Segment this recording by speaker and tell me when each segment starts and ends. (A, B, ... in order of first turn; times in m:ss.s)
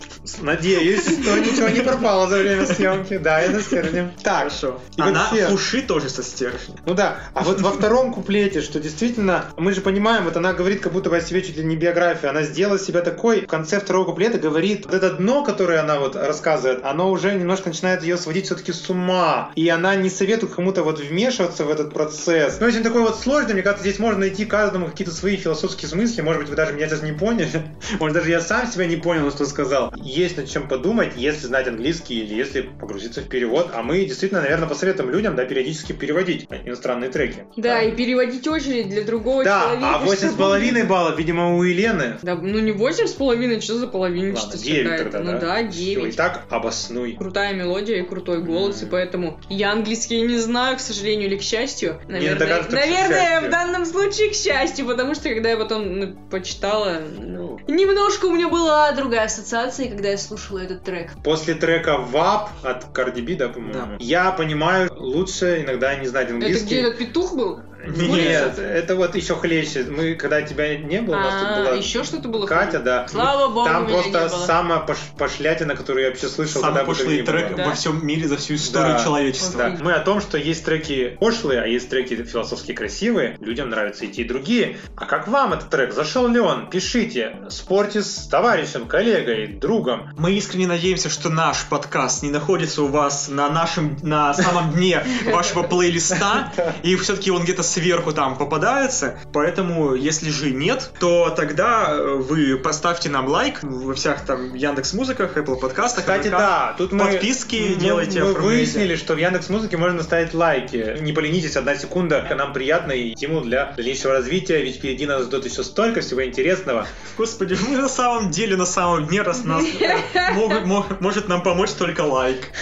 0:00.2-0:05.6 A
0:00.8-0:06.8 B
0:06.8-0:38.0 A
0:37.6-0:40.9 C
0:39.4-0:42.2 A
0:42.2-0:46.2 C
0:44.3-0:47.2 A
0:47.2-1:01.2 C
0:48.4-0:49.0 A
0:52.1-0:53.6 A
1:01.2-1:06.9 A
1:03.6-1:04.0 B
1:06.4-1:08.6 C
1:07.8-1:17.8 A
1:07.8-1:08.6 B
1:11.1-1:14.5 C
1:16.5-1:19.8 B
1:17.5-1:17.8 C
1:18.6-1:30.1 A
1:19.4-1:19.8 C
1:30.2-1:48.9 B
1:36.1-1:36.8 A
1:45.9-1:56.9 A
1:57.0-2:02.5 B
1:59.6-2:00.6 C